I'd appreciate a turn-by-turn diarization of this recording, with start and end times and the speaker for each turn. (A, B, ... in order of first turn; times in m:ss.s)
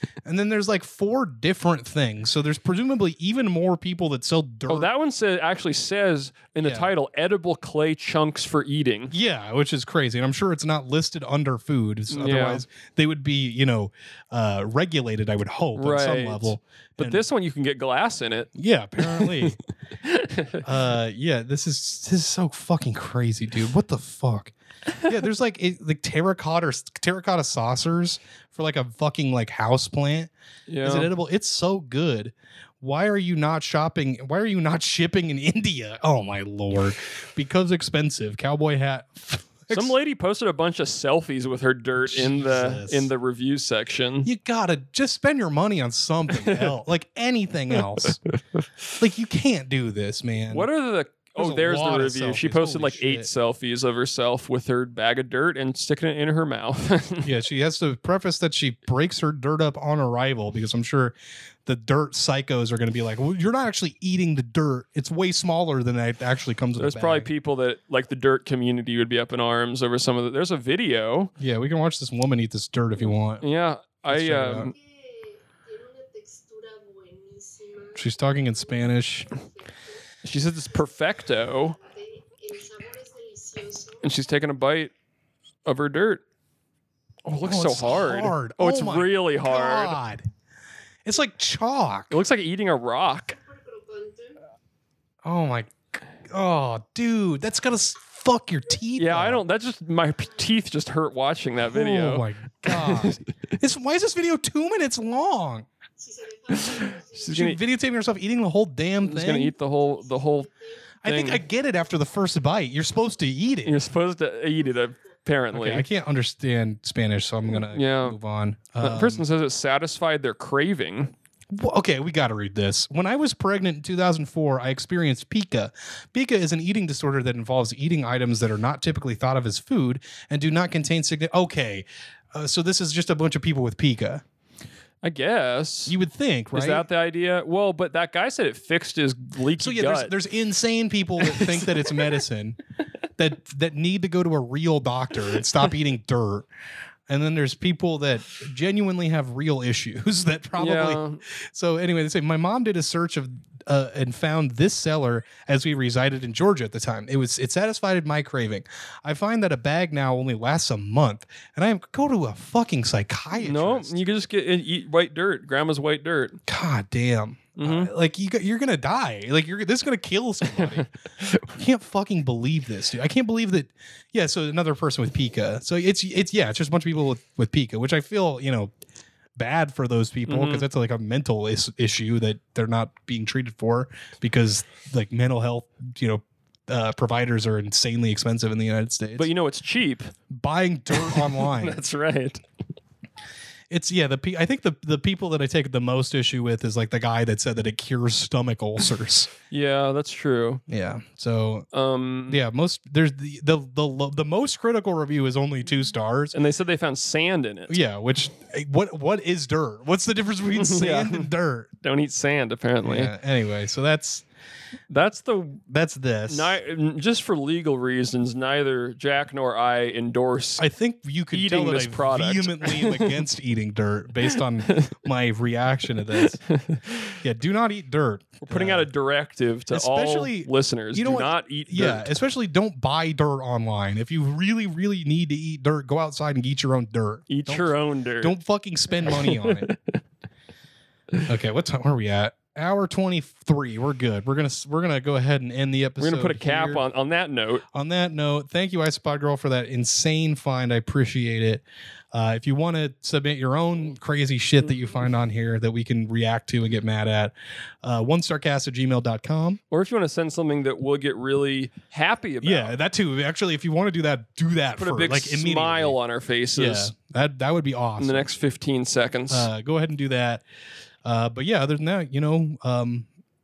0:00.2-0:04.9 A
0:04.7-0:09.1 B
0:06.6-0:06.9 A
0:09.1-0:17.2 A
0:12.1-0:12.6 B
0:15.8-0:20.6 B
0:18.5-0:19.6 A
0:20.6-0:30.3 A
0:30.7-0:31.1 B
0:30.8-0:39.9 A
0:39.7-0:44.3 B
0:42.0-0:43.1 A
0:44.2-0:48.2 A
0:46.3-0:46.7 B
0:47.7-0:48.6 B
0:49.0-0:50.7 A
0:50.5-0:57.3 B
0:51.4-0:53.3 A
0:57.2-1:07.3 A
1:06.8-1:11.3 B
1:11.4-1:13.4 A
1:13.4-1:14.7 B
1:14.1-1:14.7 A
1:14.6-1:20.0 C
1:18.0-1:19.3 A
1:20.2-1:21.8 B
1:21.1-1:24.4 C
1:24.0-1:24.9 B
1:25.6-1:26.2 B
1:27.2-1:30.0 B
1:27.3-1:30.2 A
1:31.0-1:32.2 A
1:32.1-1:33.4 B
1:33.2-1:34.4 C
1:35.2-1:35.8 A
1:36.3-1:39.4 A
1:39.0-1:43.3 B
1:40.2-1:40.6 C
1:41.6-1:45.6 A
1:46.0-1:47.4 C
1:46.5-1:47.6 B
1:47.3-1:49.5 A
1:49.0-1:50.5 B
1:49.6-1:52.2 C
1:51.0-1:53.8 A
1:51.0-1:51.4 B
1:53.6-1:55.8 B
1:54.4-1:55.2 C
1:55.5-1:59.2 A
1:57.5-1:58.2 B
1:58.8-2:01.1 B
2:01.5-2:14.2 A
2:15.0-2:16.0 B
2:15.9-2:16.9 A
2:16.5-2:20.1 B
2:19.6-2:22.6 A
2:21.2-2:22.0 B
2:23.2-2:26.5 A
2:27.1-2:44.0 A
2:30.6-2:31.2 B
2:43.3-2:46.4 B
2:46.5-2:50.9 A
2:47.6-2:47.9 B
2:50.5-2:51.5 B
2:51.5-2:58.7 A
2:59.4-3:09.3 A
3:00.3-3:00.6 B
3:09.2-3:10.1 B
3:10.3-3:11.8 A
3:10.9-3:12.4 B
3:13.7-3:19.3 A
3:19.5-3:20.6 B
3:20.7-3:21.6 A
3:21.7-3:22.4 B
3:22.3-3:26.4 A
3:26.3-3:27.8 B
3:27.7-3:31.7 A
3:30.5-3:31.3 B
3:31.8-3:33.1 B
3:32.8-3:34.2 A
3:34.9-3:35.6 B
3:35.7-3:36.6 A
3:36.3-3:40.6 B
3:40.6-3:46.4 A
3:41.3-3:43.2 B
3:44.6-3:45.0 B
3:46.1-3:47.2 B
3:47.2-3:48.9 A
3:48.4-3:52.2 B
3:49.7-3:59.7 A
3:57.3-3:58.3 B
3:59.0-4:00.0 B
4:01.3-4:06.8 A
4:06.0-4:07.6 B
4:07.7-4:19.6 A
4:19.7-4:22.7 B
4:22.4-4:26.0 A
4:24.8-4:26.9 B
4:26.5-4:28.3 A
4:28.0-4:29.5 B
4:29.3-4:30.4 A
4:31.0-4:33.1 A